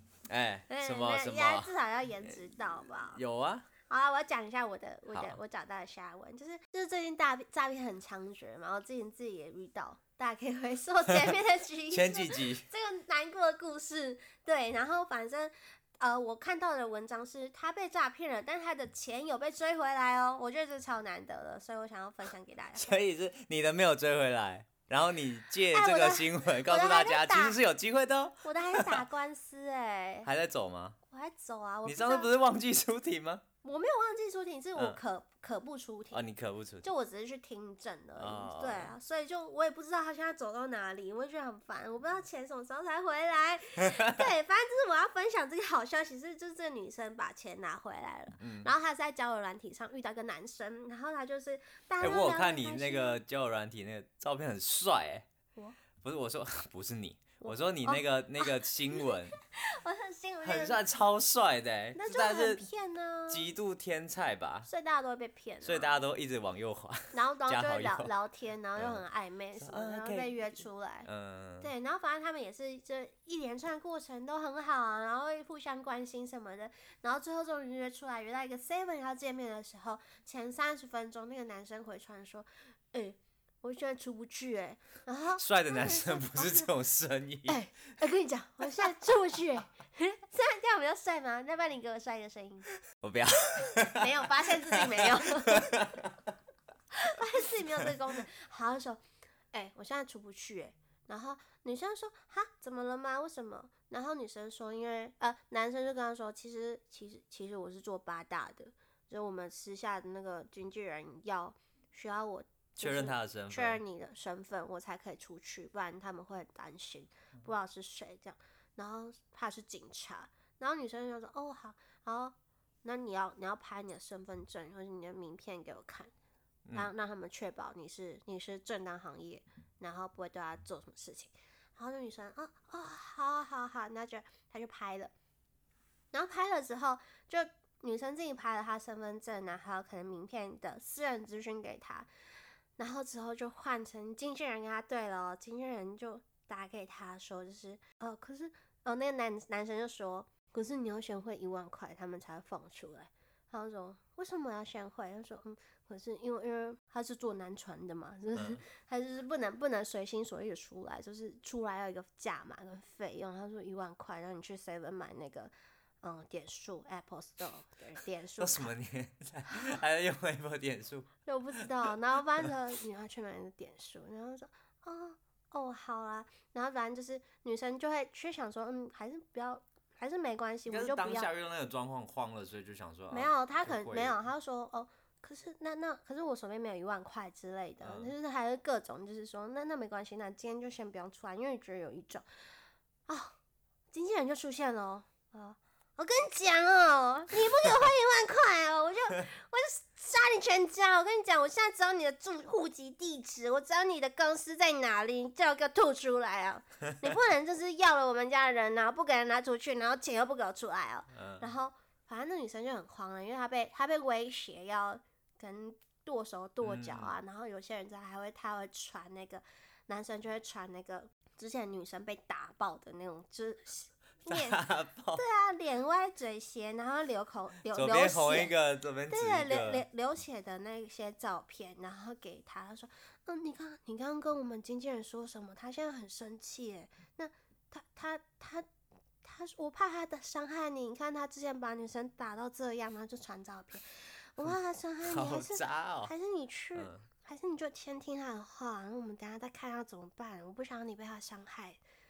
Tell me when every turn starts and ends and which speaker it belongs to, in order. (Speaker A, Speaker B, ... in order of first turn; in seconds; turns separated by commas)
Speaker A: 0.3-1.7, Speaker B: 0.7-3.2, Speaker A: 3.1-3.7, Speaker B: 3.8-23.0, Speaker A: 5.1-5.4, Speaker A: 11.9-12.6, Speaker A: 22.7-29.0, Speaker B: 25.7-27.6, Speaker B: 28.4-30.3, Speaker A: 30.2-31.0, Speaker B: 31.1-32.3, Speaker A: 31.8-33.4, Speaker B: 33.6-36.2, Speaker A: 36.1-36.9, Speaker B: 36.8-53.2, Speaker A: 38.2-38.9, Speaker A: 43.8-44.2, Speaker A: 48.4-48.7, Speaker A: 52.0-55.3, Speaker A: 56.0-59.4, Speaker B: 57.4-60.8, Speaker A: 60.4-62.6, Speaker B: 61.9-63.5, Speaker A: 63.3-64.7, Speaker B: 64.7-66.0, Speaker A: 65.6-68.1, Speaker B: 67.1-71.1, Speaker A: 68.8-69.0, Speaker A: 69.6-70.5, Speaker A: 71.0-71.7, Speaker B: 71.6-86.7, Speaker A: 85.4-87.6, Speaker B: 87.5-92.7, Speaker A: 92.9-96.3, Speaker B: 93.8-95.8, Speaker B: 96.9-126.1, Speaker A: 97.4-98.0, Speaker A: 112.8-113.8, Speaker A: 126.7-126.9, Speaker B: 126.7-135.1, Speaker B: 136.1-142.1, Speaker B: 142.8-168.7, Speaker A: 158.3-158.6, Speaker A: 168.4-171.7, Speaker B: 171.2-181.3, Speaker A: 180.7-184.2, Speaker B: 183.1-192.2, Speaker A: 187.8-188.1, Speaker B: 193.1-193.3, Speaker B: 193.9-224.6, Speaker A: 211.1-211.5, Speaker A: 216.6-217.1, Speaker A: 224.3-225.2, Speaker B: 225.1-228.5, Speaker A: 227.7-229.8, Speaker B: 229.1-238.7, Speaker B: 239.2-251.8, Speaker A: 244.4-246.1, Speaker A: 246.7-247.1